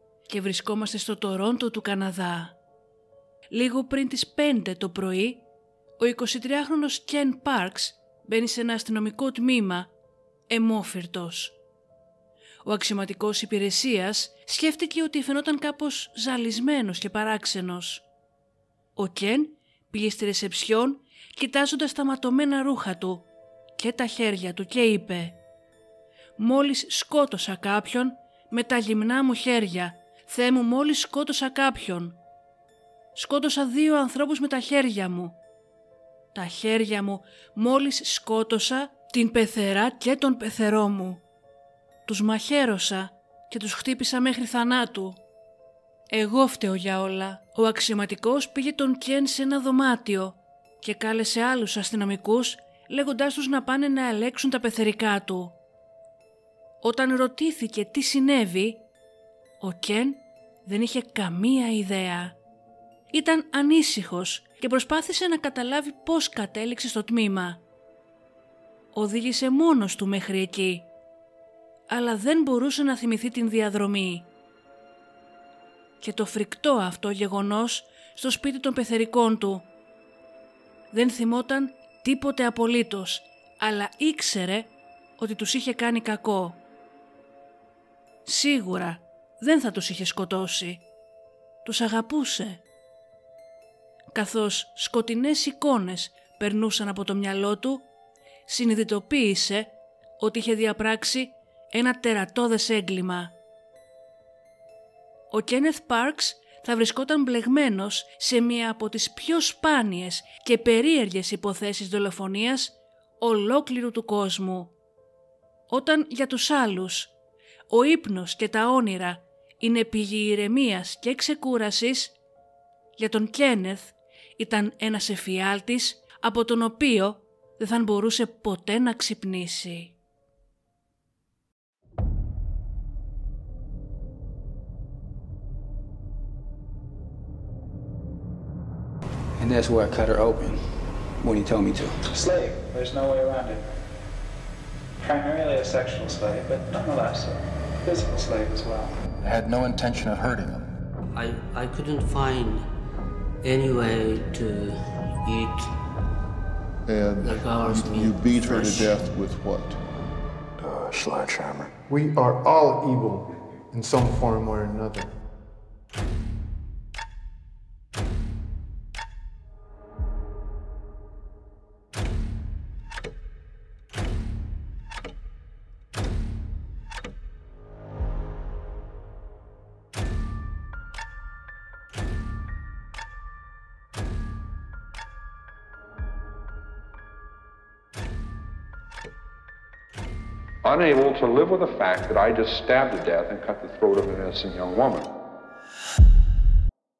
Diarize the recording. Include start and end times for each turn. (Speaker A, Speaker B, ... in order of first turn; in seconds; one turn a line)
Speaker A: 0.3-2.5
Speaker A: 3.5-5.4
Speaker A: 6.0-9.9
Speaker A: 10.5-11.6
Speaker A: 12.6-18.0
Speaker A: 18.9-25.4
Speaker A: 26.4-32.2
Speaker A: 33.1-35.4
Speaker A: 36.3-41.2
Speaker A: 42.0-45.2
Speaker A: 46.1-55.5
Speaker A: 56.8-58.9
Speaker A: 59.6-62.4
Speaker A: 63.1-67.6
Speaker A: 68.9-70.9
Speaker A: 71.9-74.3
Speaker A: 76.0-79.7
Speaker A: 80.9-86.6
Speaker A: 88.2-90.8
Speaker A: 91.6-92.6
Speaker A: 94.1-97.8
Speaker A: 98.5-103.3
Speaker A: 105.3-114.7
Speaker A: 115.7-117.1
Speaker A: 117.7-122.2
Speaker A: 123.0-129.9
Speaker B: 139.4-142.0
Speaker C: 142.1-143.7
Speaker C: 145.0-149.0
Speaker D: 149.2-150.7
Speaker E: 151.1-152.7
Speaker E: 153.4-155.8
Speaker F: 156.8-159.8
Speaker E: 157.2-159.0
Speaker D: 160.6-161.7
Speaker G: 161.9-165.2
Speaker H: 190.6-195.1